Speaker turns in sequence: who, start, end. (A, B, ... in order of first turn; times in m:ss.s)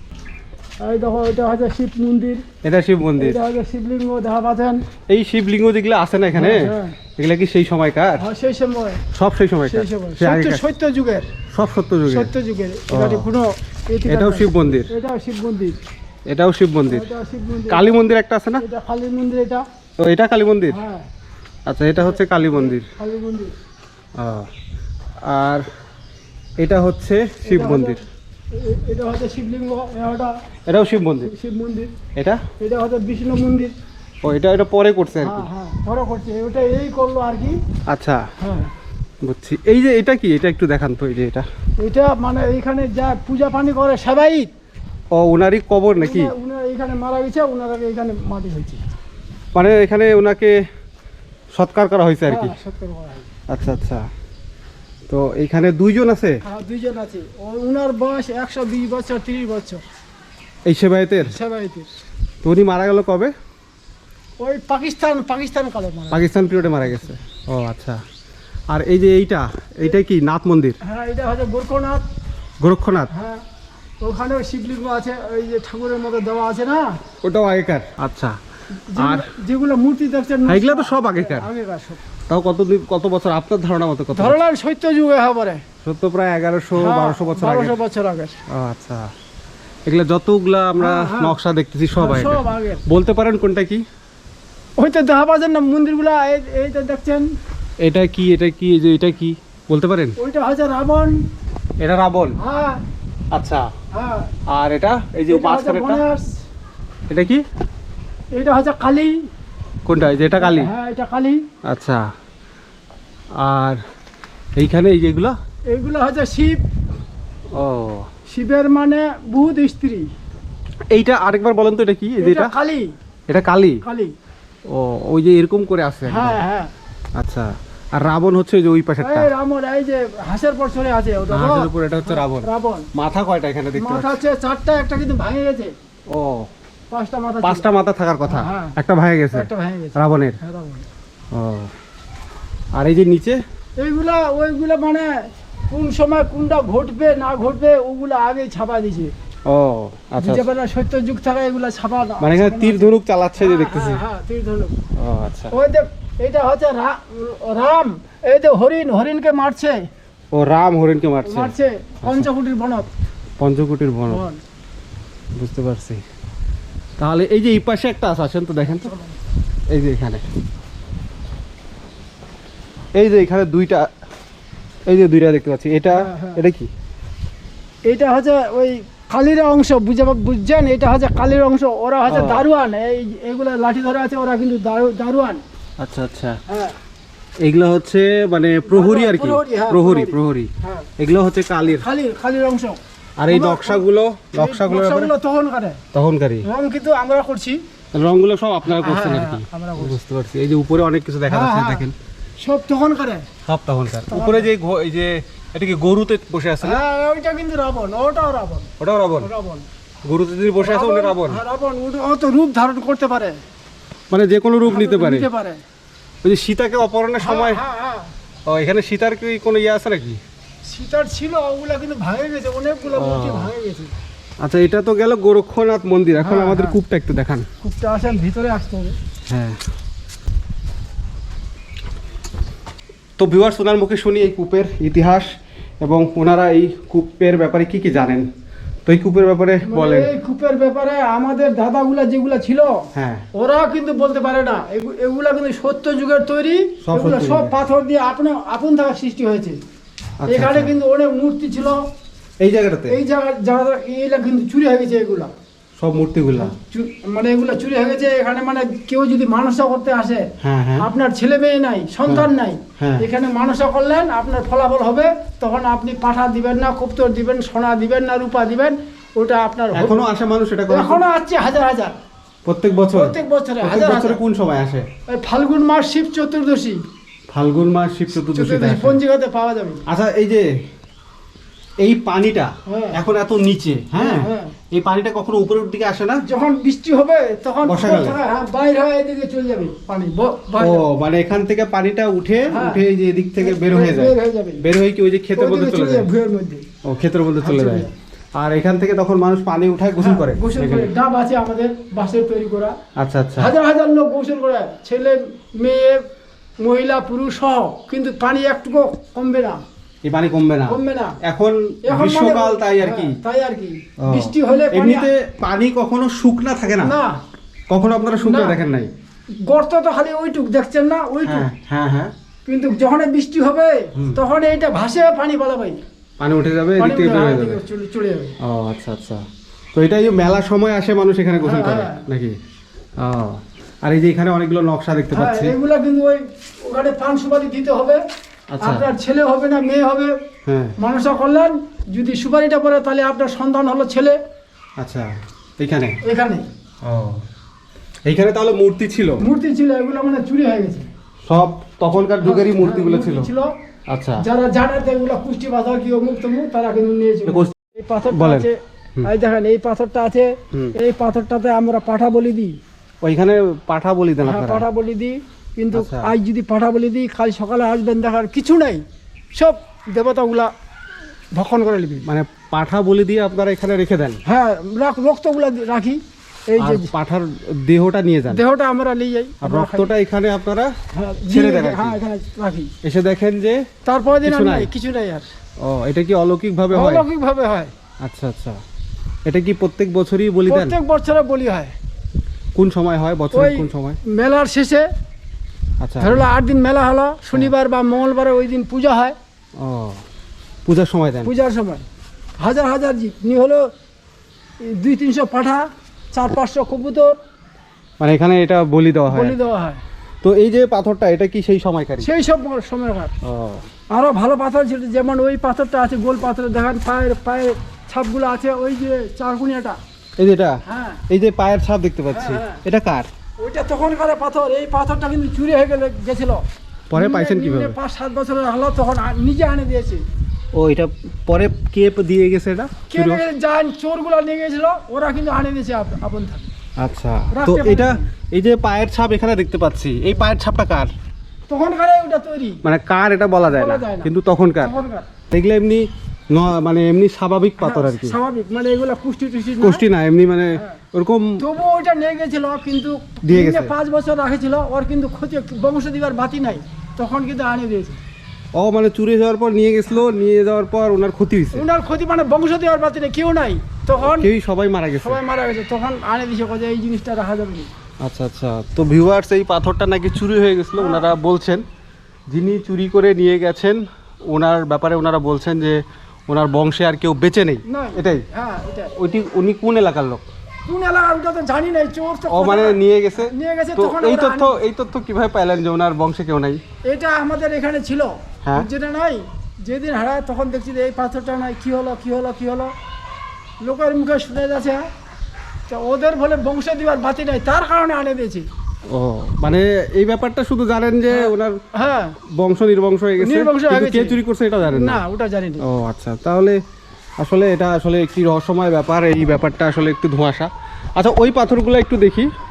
0:00.8-0:02.4 A
0:02.6-0:03.4 B
0:03.2-0:04.8 A
0:05.1-0:08.2 B
0:06.3-0:07.0 A
0:08.2-0:09.0 A
0:09.1-0:10.6 B
0:09.6-0:11.3 A
0:11.5-0:12.3 B
0:12.1-0:15.8 A
0:12.9-0:13.3 B
0:14.1-0:14.9 B
0:16.3-0:17.1 B
0:16.9-0:17.9 A
0:17.7-0:18.6 B
0:18.6-0:19.6 A
0:20.0-0:20.8 B
0:20.7-0:21.1 A
0:21.7-0:22.9 B
0:22.0-0:23.5 A
0:24.2-0:24.5 B
0:25.2-0:25.6 B
0:26.6-0:28.0 B
0:27.4-0:28.0 A
0:28.5-0:30.3 A
0:30.6-0:31.3 B
0:31.2-0:31.9 A
0:32.2-0:32.4 B
0:32.6-0:33.7 A
0:34.2-0:35.5 B
0:35.2-0:37.6 A
0:37.9-0:38.2 B
0:38.4-0:38.7 A
0:39.2-0:41.4 B
0:41.8-0:44.5 A
0:45.1-0:46.3 B
0:46.0-0:48.8 A
0:49.5-0:50.6 B
0:51.5-0:52.5 B
0:52.3-0:53.3 A
0:53.5-0:54.1 B
0:55.1-0:56.4 B
0:56.4-0:59.8 A
1:00.6-1:01.3 B
1:01.2-1:01.9 A
1:02.4-1:03.3 B
1:04.4-1:06.3 A
1:06.1-1:08.0 B
1:08.7-1:10.8 B
1:10.8-1:12.0 A
1:12.6-1:13.1 B
1:13.1-1:13.4 A
1:14.0-1:17.0 A
1:17.2-1:18.4 B
1:18.9-1:22.0 A
1:19.0-1:19.2 B
1:20.4-1:21.5 B
1:22.3-1:24.4 B
1:24.2-1:25.6 A
1:25.8-1:27.8 B
1:26.8-1:28.4 A
1:28.5-1:29.1 B
1:29.9-1:33.8 B
1:30.8-1:31.3 A
1:32.0-1:32.8 A
1:34.8-1:37.2 A
1:37.8-1:40.2 B
1:40.2-1:41.2 A
1:41.8-1:42.4 B
1:42.4-1:42.8 A
1:43.3-1:43.6 B
1:43.9-1:44.3 A
1:44.5-1:46.0 B
1:45.3-1:46.3 A
1:47.1-1:47.4 B
1:48.3-1:49.1 A
1:49.8-1:50.7 B
1:50.3-1:51.4 A
1:51.6-1:52.0 B
1:53.4-1:53.8 B
1:54.6-1:55.4 B
1:55.7-1:56.6 A
1:57.5-1:58.1 B
1:58.3-2:00.1 A
2:00.9-2:02.5 B
2:02.2-2:02.9 A
2:03.3-2:03.8 B
2:03.8-2:04.1 A
2:04.7-2:06.4 B
2:06.1-2:06.7 A
2:07.1-2:09.3 B
2:09.0-2:12.9 A
2:11.3-2:14.2 B
2:13.8-2:15.7 A
2:16.1-2:16.5 B
2:16.9-2:17.7 A
2:17.4-2:20.4 B
2:18.3-2:18.8 A
2:19.3-2:20.9 A
2:21.3-2:21.7 B
2:22.8-2:23.4 B
2:23.8-2:25.2 A
2:25.7-2:29.1 A
2:29.4-2:30.5 B
2:30.2-2:34.8 A
2:32.2-2:34.0 B
2:35.0-2:35.5 B
2:35.5-2:39.8 A
2:40.3-2:42.3 B
2:41.2-2:42.9 A
2:43.4-2:44.2 B
2:44.1-2:44.4 A
2:45.4-2:46.0 B
2:47.0-2:48.9 B
2:48.7-2:49.2 A
2:49.7-2:50.2 B
2:53.0-2:53.9 B
2:54.9-2:56.7 B
2:55.9-2:56.4 A
2:57.9-3:05.4 A
3:02.1-3:02.5 B
3:05.8-3:06.4 B
3:06.5-3:06.8 A
3:07.4-3:11.9 B
3:08.7-3:10.9 A
3:11.8-3:12.8 A
3:13.2-3:15.1 B
3:13.3-3:13.8 A
3:14.4-3:15.8 A
3:15.9-3:16.5 B
3:16.4-3:17.6 A
3:17.9-3:22.0 B
3:18.7-3:20.0 A
3:21.3-3:21.8 A
3:22.4-3:23.3 A
3:23.4-3:26.8 B
3:24.1-3:24.5 A
3:26.6-3:28.7 A
3:28.8-3:29.3 B
3:29.2-3:29.7 A
3:30.0-3:31.4 B
3:30.6-3:33.4 A
3:34.1-3:35.3 B
3:34.7-3:35.6 A
3:36.2-3:37.6 B
3:37.2-3:38.1 A
3:38.5-3:40.2 B
3:40.6-3:43.9 A
3:43.0-3:43.5 B
3:44.4-3:47.4 B
3:46.2-3:46.8 A
3:47.6-3:49.0 A
3:49.3-3:49.6 B
3:53.2-3:55.3 B
3:55.8-3:58.2 B
3:58.9-4:00.1 B
3:59.6-4:02.8 A
4:02.9-4:03.2 B
4:03.4-4:09.6 A
4:06.8-4:07.5 B
4:10.2-4:10.7 B
4:10.3-4:11.8 A
4:12.4-4:13.0 B
4:12.9-4:15.3 A
4:15.8-4:16.5 B
4:16.4-4:20.2 A
4:20.4-4:20.9 B
4:20.8-4:30.0 A
4:22.1-4:23.1 B
4:29.8-4:31.0 B
4:30.7-4:32.0 A
4:32.4-4:34.9 B
4:32.9-4:34.2 A
4:35.1-4:36.8 A
4:37.3-4:39.0 B
4:38.2-4:39.8 A
4:39.9-4:40.5 B
4:41.8-4:46.2 B
4:42.7-4:43.0 A
4:43.9-4:44.5 A
4:46.3-4:50.9 A
4:47.6-4:48.2 B
4:50.6-4:56.1 B
4:52.5-4:52.8 A
4:53.4-4:54.6 A
4:55.4-4:56.6 A
4:56.8-5:00.9 B
4:57.4-4:57.9 A
5:00.0-5:02.8 A
5:03.0-5:03.5 B
5:03.4-5:06.0 A
5:06.6-5:09.6 A
5:10.0-5:13.2 B
5:10.7-5:11.2 A
5:11.9-5:15.1 A
5:14.0-5:16.9 B
5:16.8-5:17.1 A
5:17.7-5:18.9 B
5:18.2-5:18.6 A
5:19.5-5:21.5 A
5:21.2-5:22.1 B
5:22.5-5:25.8 A
5:26.2-5:27.6 B
5:26.8-5:28.4 A
5:28.4-5:29.2 B
5:29.8-5:32.4 B
5:31.4-5:32.0 A
5:33.0-5:35.6 B
5:35.1-5:38.0 A
5:38.5-5:38.9 B
5:38.6-5:40.2 A
5:40.4-5:40.8 B
5:40.8-5:44.2 A
5:44.8-5:46.0 B
5:46.0-5:46.4 A
5:46.8-5:47.2 B
5:48.0-5:49.2 B
5:49.2-5:50.9 A
5:51.2-5:53.3 B
5:52.2-5:53.5 A
5:53.9-5:54.2 B
5:54.2-6:02.6 A
5:57.2-5:57.5 B
5:58.1-5:59.1 B
6:03.0-6:04.6 B
6:04.2-6:08.8 A
6:05.7-6:06.1 B
6:09.3-6:10.5 A
6:11.3-6:12.1 A
6:12.0-6:14.2 B
6:14.2-6:16.9 A
6:16.6-6:18.4 B
6:18.3-6:19.9 A
6:19.4-6:20.7 B
6:20.9-6:22.7 A
6:21.3-6:22.0 B
6:22.8-6:23.6 B
6:23.9-6:25.3 A
6:24.2-6:24.7 B
6:25.6-6:27.0 B
6:26.7-6:27.7 A
6:28.0-6:28.6 B
6:29.2-6:30.8 B
6:30.5-6:31.7 A
6:32.5-6:34.0 B
6:33.3-6:34.9 A
6:35.8-6:36.2 B
6:36.0-6:39.2 A
6:39.6-6:40.0 B
6:40.6-6:41.3 B
6:41.2-6:41.9 A
6:42.4-6:43.7 A
6:44.6-6:47.2 A
6:48.0-6:49.4 B
6:49.1-6:49.8 A
6:50.2-6:52.1 B
6:52.0-6:53.1 A
6:53.2-6:53.6 B
6:53.9-6:59.8 A
7:00.2-7:03.1 B
7:00.6-7:01.0 A
7:02.1-7:02.6 A
7:03.4-7:10.0 A
7:06.9-7:07.8 B
7:10.5-7:13.2 B
7:12.9-7:16.5 A
7:16.8-7:20.9 B
7:17.3-7:18.1 A
7:21.5-7:22.6 A
7:22.6-7:24.8 B
7:23.5-7:24.1 A
7:24.6-7:25.0 A
7:25.3-7:28.2 B
7:27.6-7:29.8 A
7:29.6-7:31.4 B
7:31.4-7:38.0 A
7:33.2-7:33.7 B
7:38.5-7:41.6 B
7:41.5-7:44.3 A
7:44.0-7:45.2 B
7:45.0-7:47.7 A
7:48.0-7:51.6 B
7:50.8-7:51.1 A
7:52.3-7:58.2 B
7:57.7-7:58.9 A
7:59.0-8:00.2 B
8:00.6-8:04.6 A
8:02.3-8:06.6 B
8:06.9-8:12.7 A
8:13.6-8:14.9 A
8:15.7-8:18.5 A
8:18.9-8:21.6 B
8:21.1-8:22.1 A
8:22.4-8:25.0 B
8:23.2-8:25.6 A
8:25.6-8:26.6 B
8:27.2-8:32.3 B